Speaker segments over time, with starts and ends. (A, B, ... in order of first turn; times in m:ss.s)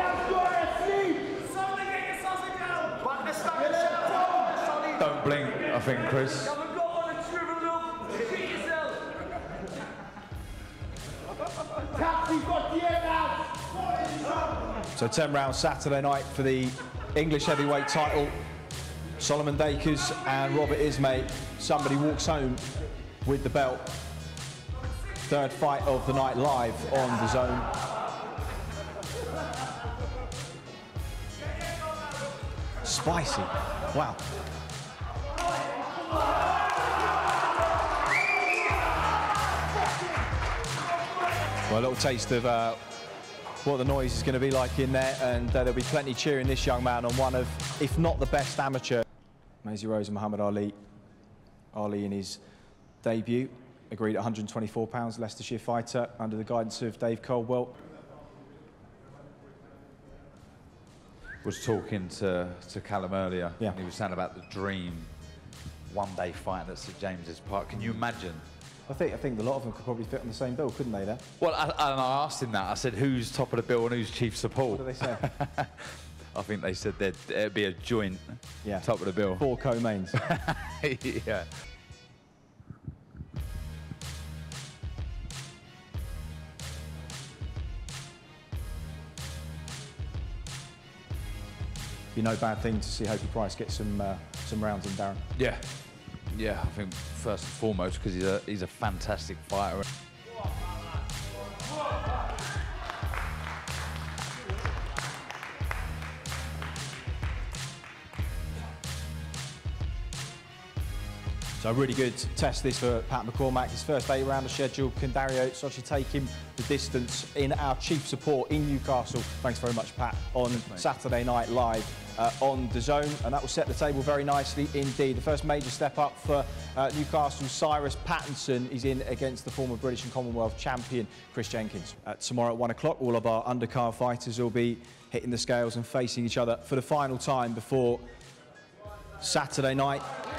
0:04.9-0:06.6 A
0:14.9-0:18.3 B
0:19.2-0:22.6 B
0:23.2-0:24.0 B
0:25.3-0:27.7 B
0:32.8-0:34.2 B
0:41.7-0:42.8 B
0:43.6-0:49.0 B
0:49.6-0:50.7 B
0:51.7-0:52.4 B
0:53.0-0:57.7 B
1:01.4-1:05.1 A
1:05.9-1:08.4 A
1:08.9-1:11.2 B
1:11.4-1:19.4 A
1:14.7-1:15.2 B
1:18.6-1:20.2 B
1:20.2-1:21.5 A
1:32.1-1:35.2 B
1:35.4-1:35.6 A
1:36.3-1:39.8 A
1:51.6-2:18.0 B
2:00.5-2:00.9 A
2:19.2-2:20.0 B